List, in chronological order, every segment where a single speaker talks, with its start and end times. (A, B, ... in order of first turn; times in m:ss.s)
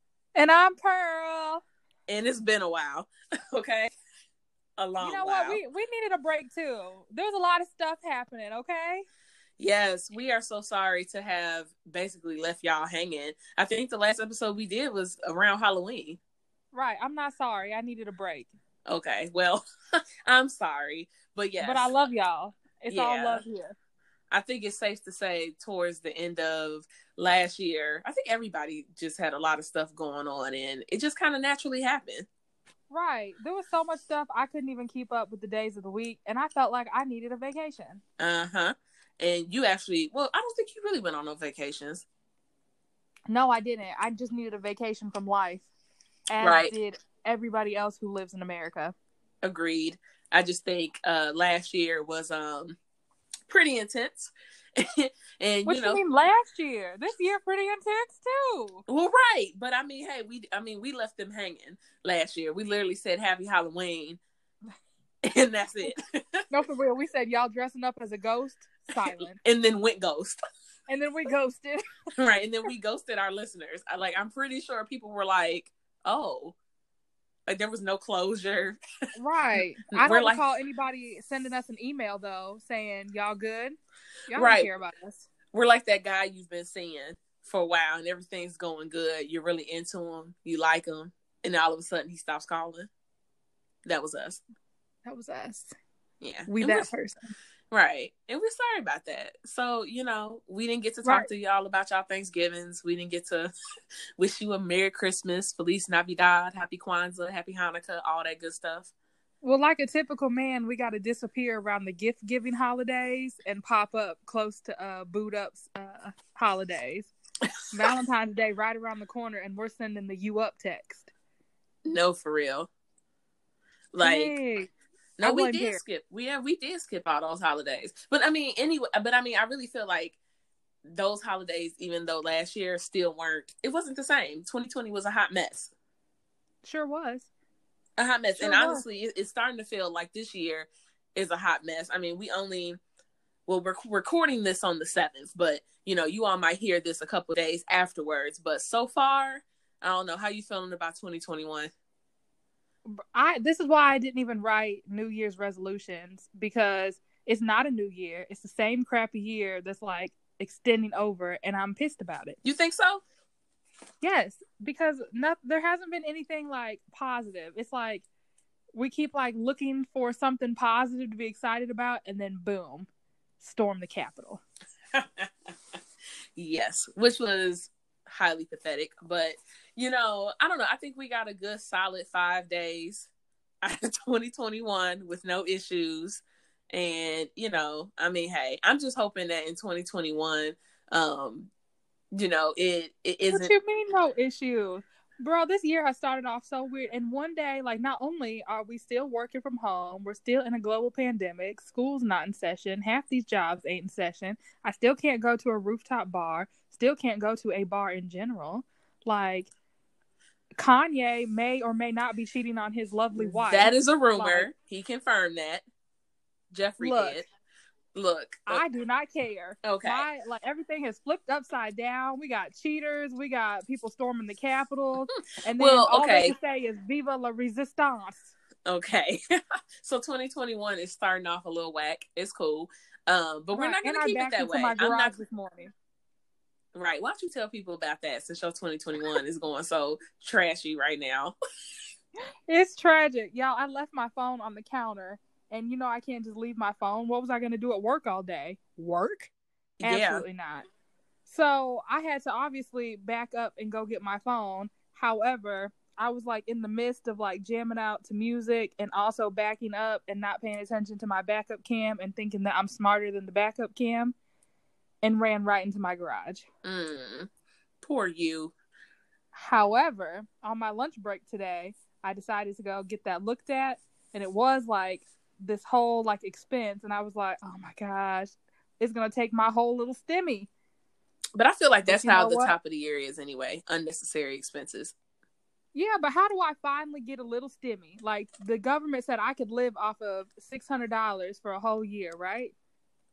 0:00.3-0:01.6 A
0:02.1-0:03.9 B
0:04.8-0:05.6 B
0:05.0-0:09.0 A
0:09.6-0:16.2 B
0:16.7-0:18.5 A
0:18.9-0:19.6 B
0:20.2-0:21.9 B
0:21.6-0:23.7 A
0:22.9-0:23.4 B
0:24.3-0:32.3 B
0:32.9-0:38.0 A
0:38.2-0:42.0 B
0:43.3-0:45.7 A
0:46.3-0:48.9 A
0:46.4-0:46.7 B
0:49.4-0:52.8 B
0:53.5-0:56.0 B
0:55.6-0:58.8 A
0:58.9-1:04.2 B
1:05.2-1:06.4 B
1:06.5-1:09.4 A
1:09.0-1:10.4 B
1:10.9-1:11.8 A
1:12.2-1:16.6 B
1:17.5-1:18.8 B
1:19.2-1:23.8 A
1:19.9-1:20.4 B
1:24.3-1:25.3 A
1:24.3-1:24.7 B
1:25.5-1:32.9 B
1:33.8-1:34.4 B
1:35.0-1:35.7 A
1:36.2-1:36.9 B
1:36.5-1:37.3 A
1:37.7-1:43.5 B
1:41.0-1:41.3 A
1:44.2-1:48.9 B
1:49.4-1:57.1 A
1:57.7-2:01.1 A
2:01.8-2:02.7 B
2:03.9-2:04.4 B
2:04.0-2:04.7 A
2:05.2-2:10.2 B
2:05.2-2:05.8 A
2:10.9-2:15.7 B
2:16.6-2:17.3 A
2:18.0-2:22.8 B
2:18.4-2:18.8 A
2:23.5-2:31.7 B
2:32.9-2:42.4 A
2:42.4-2:43.0 B
2:44.0-2:48.0 A
2:48.7-2:52.9 A
2:53.4-2:54.4 A
2:54.9-2:55.3 B
2:56.4-3:03.1 B
3:03.6-3:11.5 B
3:12.1-3:13.5 B
3:13.3-3:29.5 A
3:30.6-3:34.5 A
3:33.1-3:35.6 B
3:36.5-3:37.2 B
3:36.8-3:37.2 A
3:37.9-3:38.6 B
3:38.5-3:48.3 A
3:39.6-3:40.0 B
3:45.6-3:46.3 B
3:48.6-3:49.2 B
3:49.8-3:55.2 B
3:53.5-3:55.7 A
3:56.7-4:01.3 B
4:02.5-4:09.3 A
4:09.8-4:10.2 B
4:09.8-4:10.6 A
4:11.2-4:24.1 A
4:25.0-4:26.4 A
4:26.6-4:27.3 B
4:27.8-4:28.5 B
4:29.3-4:40.5 A
4:41.4-4:44.9 B
4:41.8-4:42.5 A
4:45.7-4:52.5 A